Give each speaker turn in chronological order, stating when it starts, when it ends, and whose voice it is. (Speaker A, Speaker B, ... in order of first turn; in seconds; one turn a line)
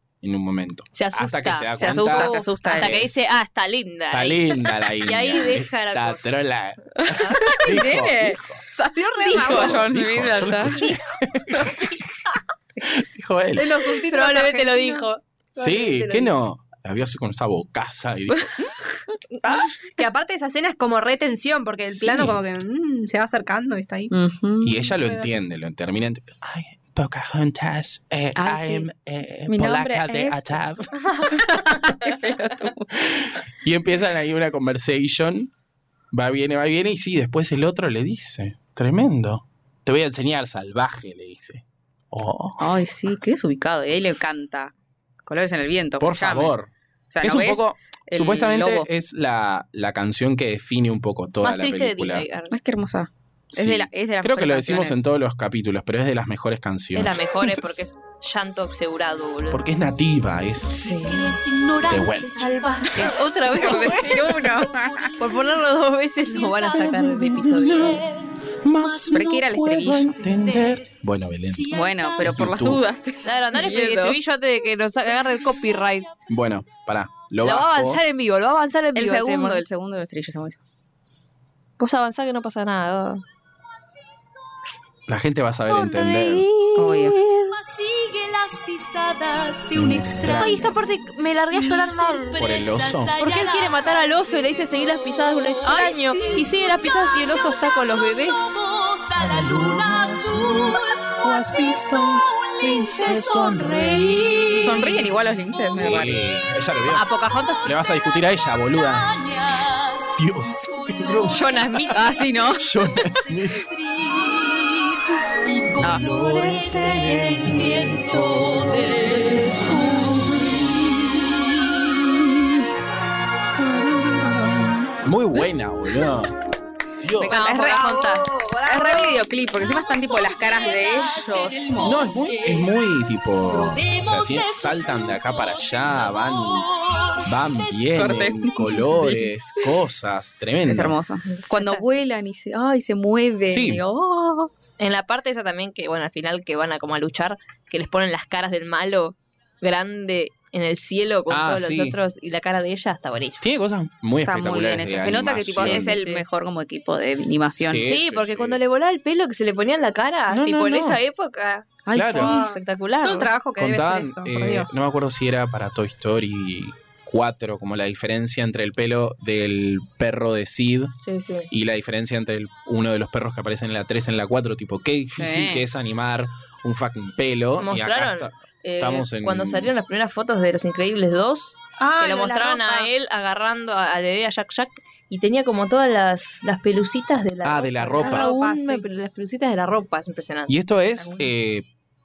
Speaker A: 0.2-3.3
Speaker B: 0.9-6.3
Speaker C: 1.8-3.1
Speaker A: 4.1-8.6
Speaker B: 7.1-7.6
Speaker C: 7.4-8.4
Speaker D: 8.7-9.9
Speaker C: 9.2-10.9
Speaker B: 9.3-9.6
Speaker A: 9.5-12.1
Speaker A: 12.8-13.7
Speaker D: 13.6-15.1
Speaker B: 13.9-16.3
Speaker A: 15.6-18.6
Speaker A: 19.4-19.7
Speaker D: 19.7-24.1
Speaker A: 21.9-22.4
Speaker C: 24.1-24.8
Speaker A: 24.6-31.7
Speaker D: 25.0-25.4
Speaker C: 28.4-28.9
Speaker C: 29.5-30.6
Speaker C: 31.3-32.9
Speaker A: 32.9-35.5
Speaker A: 36.1-42.7
Speaker C: 42.6-44.7
Speaker C: 45.3-46.5
Speaker A: 46.0-46.7
Speaker C: 47.1-48.9
Speaker A: 47.2-52.3
Speaker B: 51.4-52.5
Speaker C: 52.5-55.0
Speaker A: 53.5-57.9
Speaker B: 57.0-59.6
Speaker A: 59.5-63.1
Speaker C: 60.8-61.3
Speaker E: 60.9-65.4
Speaker B: 62.9-64.4
Speaker C: 63.5-65.2
Speaker B: 65.2-68.0
Speaker E: 66.3-67.0
Speaker A: 66.7-68.0
Speaker E: 67.5-70.8
Speaker A: 68.6-71.7
Speaker C: 69.1-70.1
Speaker E: 71.5-72.8
Speaker C: 71.7-74.2
Speaker A: 72.2-72.8
Speaker B: 73.2-76.1
Speaker E: 75.1-76.1
Speaker A: 76.3-78.0
Speaker B: 77.4-79.6
Speaker C: 79.0-80.6
Speaker B: 81.8-83.2
Speaker A: 85.1-86.5
Speaker B: 85.6-87.5
Speaker C: 86.8-87.2
Speaker E: 87.5-122.7
Speaker A: 89.7-90.8
Speaker B: 90.4-92.4
Speaker A: 92.4-93.2
Speaker B: 93.2-98.6
Speaker A: 99.2-104.9
Speaker C: 104.6-106.2
Speaker A: 105.7-107.1
Speaker B: 106.9-107.8
Speaker A: 107.6-109.1
Speaker A: 110.2-111.6
Speaker B: 111.3-112.1
Speaker C: 111.9-112.7
Speaker A: 112.6-113.7
Speaker A: 115.8-120.7
Speaker A: 123.3-126.4
Speaker A: 127.0-127.5
Speaker C: 127.2-128.1
Speaker B: 127.3-128.5
Speaker D: 127.5-129.2
Speaker C: 128.6-132.0
Speaker E: 129.6-132.8
Speaker A: 131.8-136.7
Speaker E: 133.5-138.7
Speaker A: 137.2-141.0
Speaker C: 137.9-139.3
Speaker C: 140.7-144.5
Speaker B: 141.4-141.8
Speaker A: 143.5-143.8
Speaker B: 144.8-153.4
Speaker A: 151.3-152.0
Speaker A: 153.4-156.0
Speaker C: 154.3-157.9
Speaker B: 155.6-156.2
Speaker A: 157.6-158.6
Speaker B: 157.8-163.3
Speaker A: 160.3-161.0
Speaker C: 161.9-162.4
Speaker A: 161.9-162.4
Speaker D: 162.1-164.8
Speaker A: 163.6-170.9
Speaker B: 171.0-171.5
Speaker A: 171.5-179.7
Speaker C: 175.2-175.7
Speaker B: 177.6-190.6
Speaker D: 181.8-182.9
Speaker A: 187.4-188.3
Speaker D: 188.0-188.9
Speaker A: 190.5-191.7